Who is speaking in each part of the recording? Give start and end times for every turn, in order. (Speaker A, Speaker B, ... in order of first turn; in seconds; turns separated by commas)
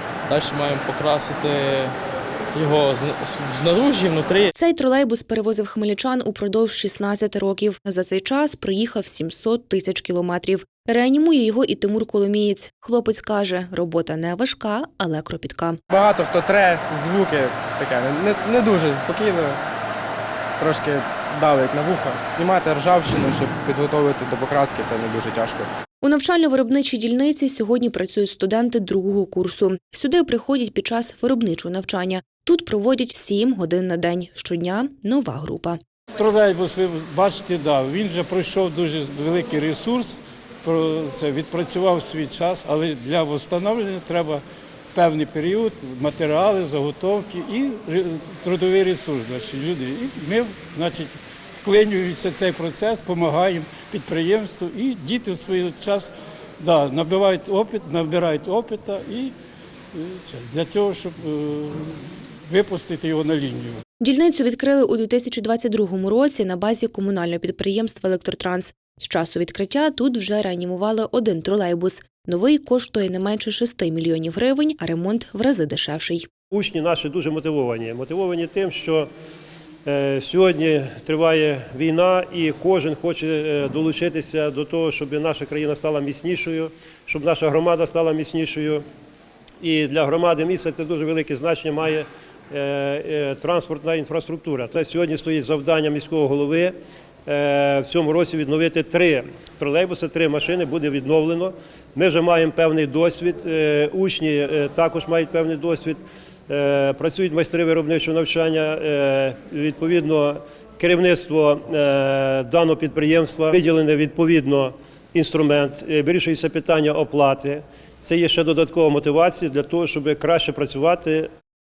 Speaker A: 0.3-1.9, Speaker A: 2.5-4.5, Speaker B: 4.5-15.8, Speaker C: 15.9-19.6, Speaker C: 20.6-25.7, Speaker B: 26.0-35.8, Speaker D: 36.2-44.4, Speaker D: 44.9-59.3, Speaker D: 59.9-63.8, Speaker B: 64.0-76.3, Speaker E: 76.5-79.1, Speaker E: 79.8-88.8, Speaker E: 89.6-96.7, Speaker E: 97.3-121.3